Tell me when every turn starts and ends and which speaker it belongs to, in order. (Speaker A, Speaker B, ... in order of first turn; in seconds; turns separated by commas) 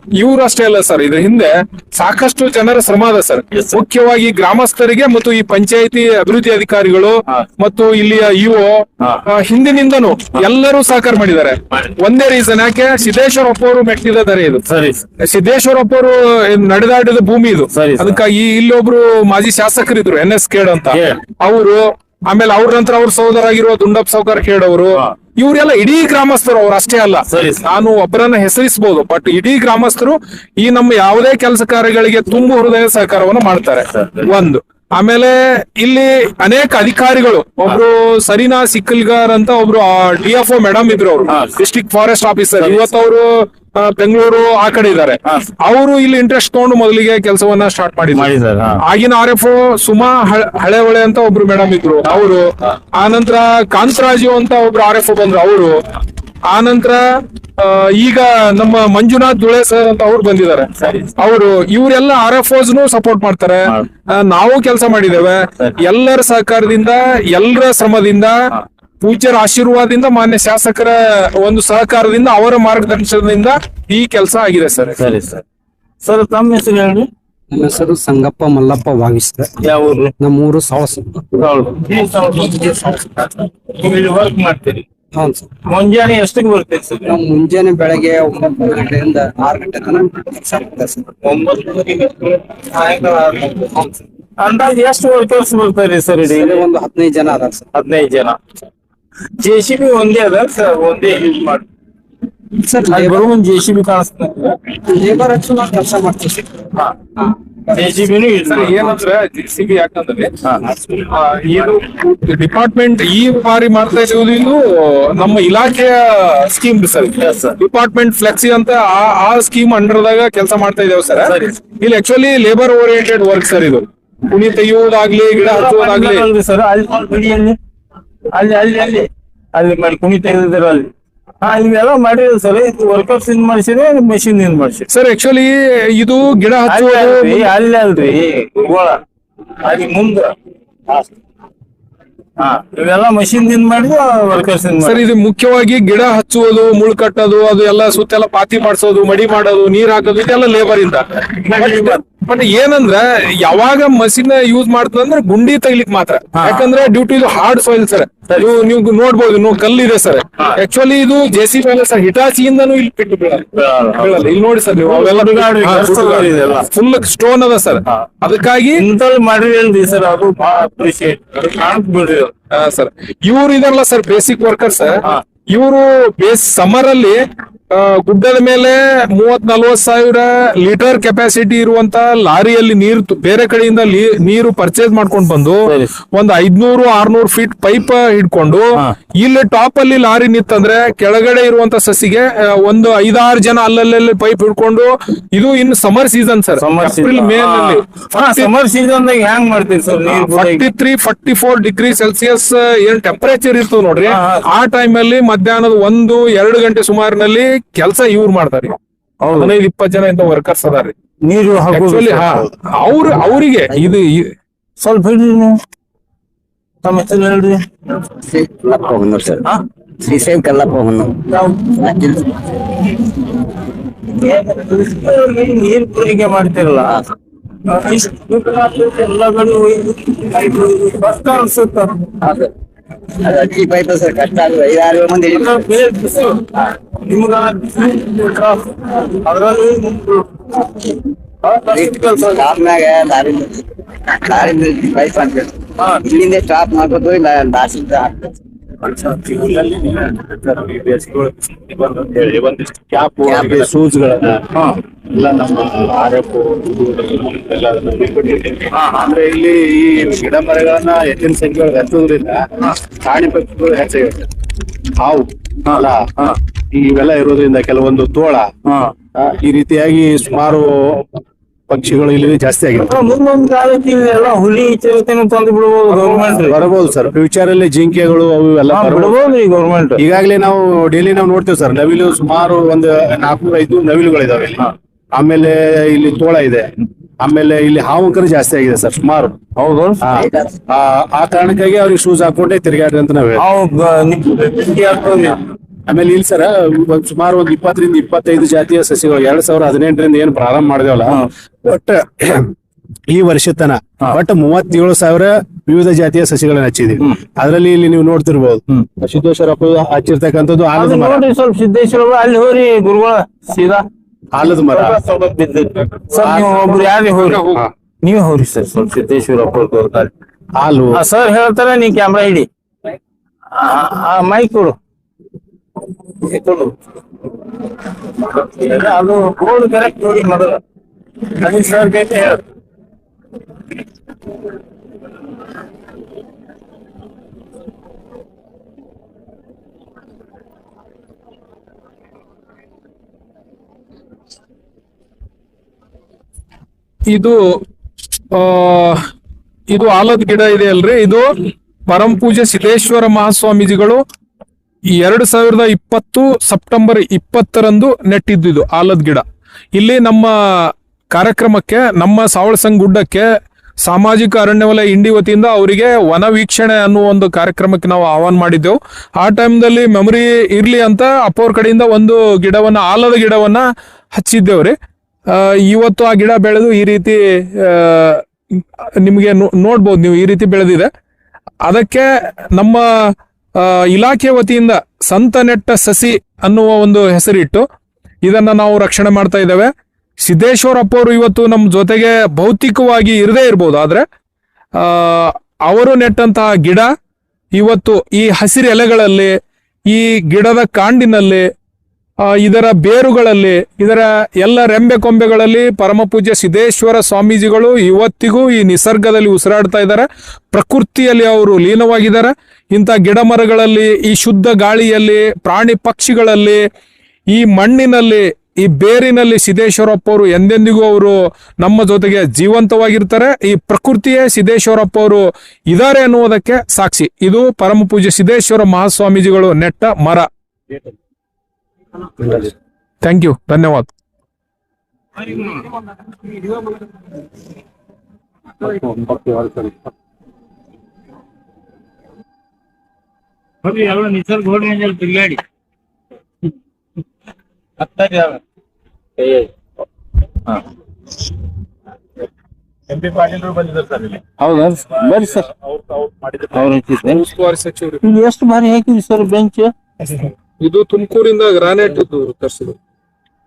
Speaker A: 0.2-14.6, Speaker B: 3.5-3.8, Speaker B: 14.7-15.1, Speaker A: 15.2-48.3, Speaker B: 17.7-18.2, Speaker B: 20.9-21.2, Speaker B: 27.3-27.6, Speaker B: 33.9-34.3, Speaker B: 41.3-41.5, Speaker B: 42.6-42.9, Speaker B: 48.1-48.8, Speaker A: 48.8-55.8, Speaker A: 56.5-57.0, Speaker A: 57.6-75.0, Speaker B: 60.8-61.1, Speaker B: 75.0-75.4, Speaker B: 76.0-77.1, Speaker C: 77.5-79.5, Speaker B: 79.6-80.1, Speaker C: 80.2-81.2, Speaker B: 81.4-84.8, Speaker C: 82.5-83.0, Speaker C: 85.2-85.5, Speaker B: 85.7-87.1, Speaker C: 87.1-91.1, Speaker B: 91.2-96.7, Speaker C: 96.3-97.7, Speaker B: 97.7-98.4, Speaker B: 99.4-101.7, Speaker C: 102.6-103.2, Speaker B: 102.9-104.6, Speaker C: 104.8-106.6, Speaker B: 107.7-108.9, Speaker A: 108.4-126.2, Speaker B: 117.1-117.6, Speaker B: 121.3-121.5, Speaker B: 125.4-127.6, Speaker B: 128.3-134.9, Speaker A: 134.9-137.5, Speaker B: 136.7-139.0, Speaker B: 139.6-140.3, Speaker B: 142.4-145.0, Speaker A: 144.8-163.5, Speaker B: 151.4-152.0, Speaker B: 156.3-156.7, Speaker B: 158.3-158.6, Speaker B: 163.6-166.7, Speaker A: 164.0-168.8, Speaker B: 168.8-172.3, Speaker A: 172.5-198.5, Speaker B: 185.7-185.9, Speaker B: 196.6-200.7, Speaker A: 200.2-208.8, Speaker B: 204.1-204.5, Speaker B: 209.2-209.6, Speaker A: 209.3-210.9, Speaker B: 211.2-212.5, Speaker A: 211.7-214.3, Speaker B: 214.8-215.6, Speaker B: 216.8-217.7, Speaker D: 218.2-219.4, Speaker D: 220.0-222.4, Speaker B: 221.3-221.6, Speaker B: 224.1-227.0, Speaker B: 227.7-232.5, Speaker D: 233.2-235.6, Speaker B: 235.3-242.6, Speaker D: 241.7-248.3, Speaker E: 248.9-254.6, Speaker D: 253.3-253.6, Speaker B: 254.6-254.8, Speaker E: 255.1-264.3, Speaker B: 258.7-259.1, Speaker E: 265.0-266.1, Speaker B: 265.7-266.4, Speaker E: 266.7-268.5, Speaker B: 268.7-268.9, Speaker E: 269.2-271.1, Speaker E: 271.7-273.0, Speaker B: 272.8-276.6, Speaker E: 275.9-279.2, Speaker B: 278.7-280.0, Speaker E: 280.0-286.7, Speaker E: 287.2-289.4, Speaker B: 289.6-290.0, Speaker E: 290.0-293.5, Speaker B: 293.4-295.4, Speaker E: 295.9-302.5, Speaker E: 303.1-311.2, Speaker B: 310.8-313.9, Speaker E: 314.3-315.0, Speaker B: 314.7-317.5, Speaker E: 316.2-316.6, Speaker A: 317.1-317.6, Speaker B: 318.0-320.1, Speaker E: 320.6-321.0, Speaker B: 320.9-322.5, Speaker B: 323.5-324.8, Speaker B: 326.2-326.7, Speaker B: 328.0-330.6, Speaker B: 331.2-332.4, Speaker A: 347.1-347.6, Speaker A: 348.3-349.1, Speaker A: 349.7-354.0, Speaker A: 355.0-363.3, Speaker A: 363.8-374.8, Speaker A: 375.3-380.9, Speaker A: 381.6-387.7, Speaker A: 388.2-389.7, Speaker A: 390.2-394.1, Speaker A: 394.8-396.9, Speaker A: 397.5-399.4, Speaker A: 399.9-401.5, Speaker A: 402.2-416.6, Speaker A: 417.3-430.3, Speaker E: 432.2-432.5, Speaker A: 433.0-433.9, Speaker B: 435.2-435.7, Speaker E: 438.6-439.8, Speaker B: 443.6-445.4, Speaker B: 447.8-448.4, Speaker B: 449.2-449.5, Speaker E: 452.9-454.2, Speaker B: 454.4-455.5, Speaker E: 455.0-456.7, Speaker B: 456.5-457.3, Speaker A: 457.0-458.0, Speaker B: 458.0-459.7, Speaker A: 460.6-462.8